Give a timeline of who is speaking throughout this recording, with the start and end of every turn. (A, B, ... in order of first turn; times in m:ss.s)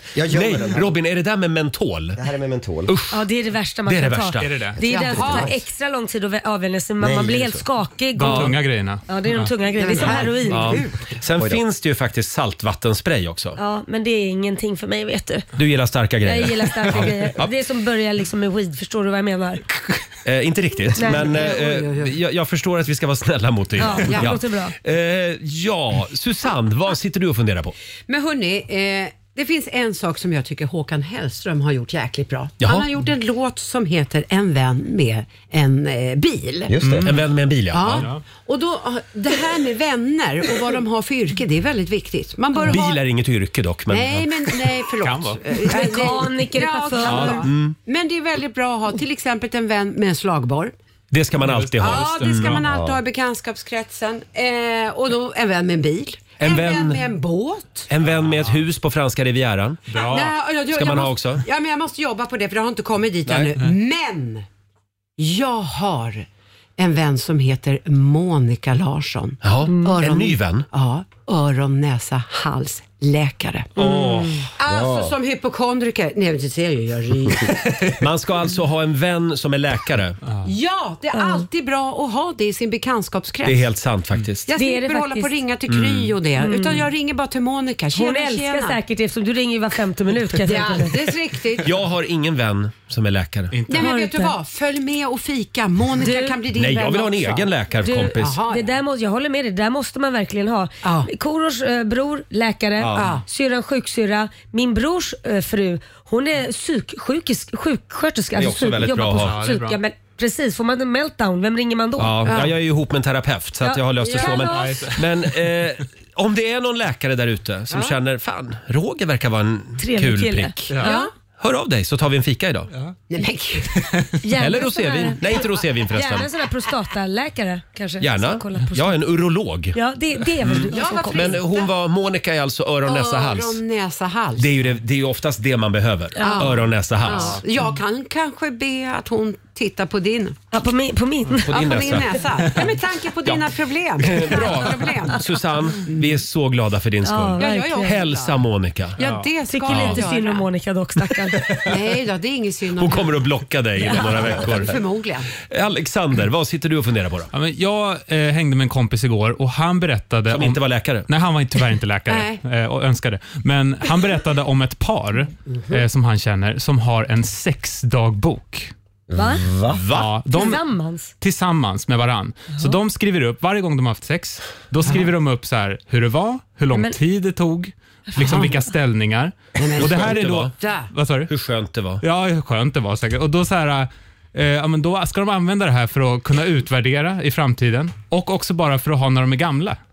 0:00.1-0:01.0 A
0:00.2-0:02.2 B
0:02.2-0:02.9 A
0:02.9-0:03.2 B
0:03.1-0:10.8 C
0:03.8-0:04.5 B
0:04.4-0:04.8 D
0:04.8-0:05.6 E
0:07.0-0:07.6 A
0:08.2-0:09.5 D
0:08.2-0:08.6 B
0:09.8-0:11.0 E
0:10.4-0:13.6 B
0:13.6-0:15.5 C
0:15.5-0:17.5 B
0:16.2-0:19.6 C
0:20.2-0:27.7 B
0:20.9-0:21.3 C
0:21.0-0:22.1 E
0:23.8-0:24.7 C
0:24.0-0:24.3 E
0:28.1-0:36.8 E
0:32.6-0:32.9 B
0:36.7-0:37.1 A
0:36.8-0:37.2 D
0:37.0-0:38.1 B
0:37.7-0:43.0 E
0:37.9-0:38.2 D
0:42.6-0:44.4 B
0:43.9-0:50.7 E
0:45.0-0:45.4 D
0:45.6-0:47.5 C
0:47.0-0:47.4 D
0:47.4-0:47.7 B
0:51.1-0:52.6 B
0:51.4-0:52.6 D
0:51.8-0:57.9 E
0:52.6-0:53.0 A
0:56.4-0:57.1 B
0:57.9-0:59.8 B
0:58.0-0:58.6 D
0:59.9-1:00.3 D
1:00.0-1:04.4 E
1:00.7-1:01.4 B
1:03.2-1:03.5 B
1:05.2-1:06.2 E
1:06.8-1:14.0 E
1:09.4-1:10.7 B
1:09.6-1:10.0 C
1:13.8-1:14.4 B
1:13.8-1:14.1 C
1:14.6-1:17.7 E
1:14.6-1:15.1 A
1:18.0-1:20.2 B
1:20.4-1:23.7 E
1:21.1-1:21.4 C
1:23.4-1:24.5 B
1:24.5-1:28.8 E
1:24.5-1:25.4 C
1:25.7-1:26.2 B
1:26.4-1:26.9 C
1:27.9-1:31.0 C
1:30.4-1:31.8 E
1:31.6-1:33.6 B
1:33.5-1:33.9 D
1:33.7-1:37.5 E
1:33.7-1:34.3 C
1:36.0-1:36.4 C
1:36.5-1:38.4 B
1:37.8-1:52.4 C
1:38.1-1:38.7 E
1:40.8-1:41.1 E
1:42.8-1:43.2 B
1:43.0-1:43.2 E
1:48.4-1:49.4 B
1:49.1-1:49.8 D
1:52.0-2:02.7 B
1:52.2-1:52.6 E
1:53.6-1:54.8 C
1:54.0-1:54.4 E
1:54.4-1:55.1 D
1:57.7-1:58.0 E
1:59.8-2:01.1 C
2:00.7-2:01.0 D
2:00.8-2:01.1 E
2:03.1-2:03.8 E
2:03.8-2:04.1 D
2:04.2-2:09.0 C
2:04.4-2:06.3 B
2:08.0-2:09.8 B
2:09.7-2:11.4 C
2:10.4-2:13.6 B
2:10.7-2:11.7 E
2:12.8-2:14.6 E
2:14.4-2:17.4 B
2:16.1-2:16.5 C
2:16.2-2:20.4 E
2:17.1-2:17.4 D
2:20.5-2:21.8 C
2:21.5-2:22.1 B
2:21.5-2:26.2 E
2:24.0-2:29.0 B
2:27.0-2:28.0 C
2:27.4-2:28.4 E
2:29.0-2:30.5 E
2:29.0-2:29.3 D
2:29.5-2:31.4 C
2:31.6-2:33.3 E
2:32.7-2:34.8 B
2:33.9-2:35.3 E
2:35.4-2:37.3 B
2:37.3-2:48.7 D
2:40.3-2:41.1 B
2:42.1-2:42.4 E
2:49.1-2:49.8 A
2:49.1-2:49.5 C
2:49.7-2:50.2 B
2:49.9-2:50.6 D
2:50.3-2:51.1 C
2:51.2-3:01.3 D
2:58.1-2:58.5 C
2:58.2-2:58.5 E
2:59.6-3:00.9 E
2:59.7-3:00.5 B
3:01.3-3:02.0 B
3:02.0-3:09.8 D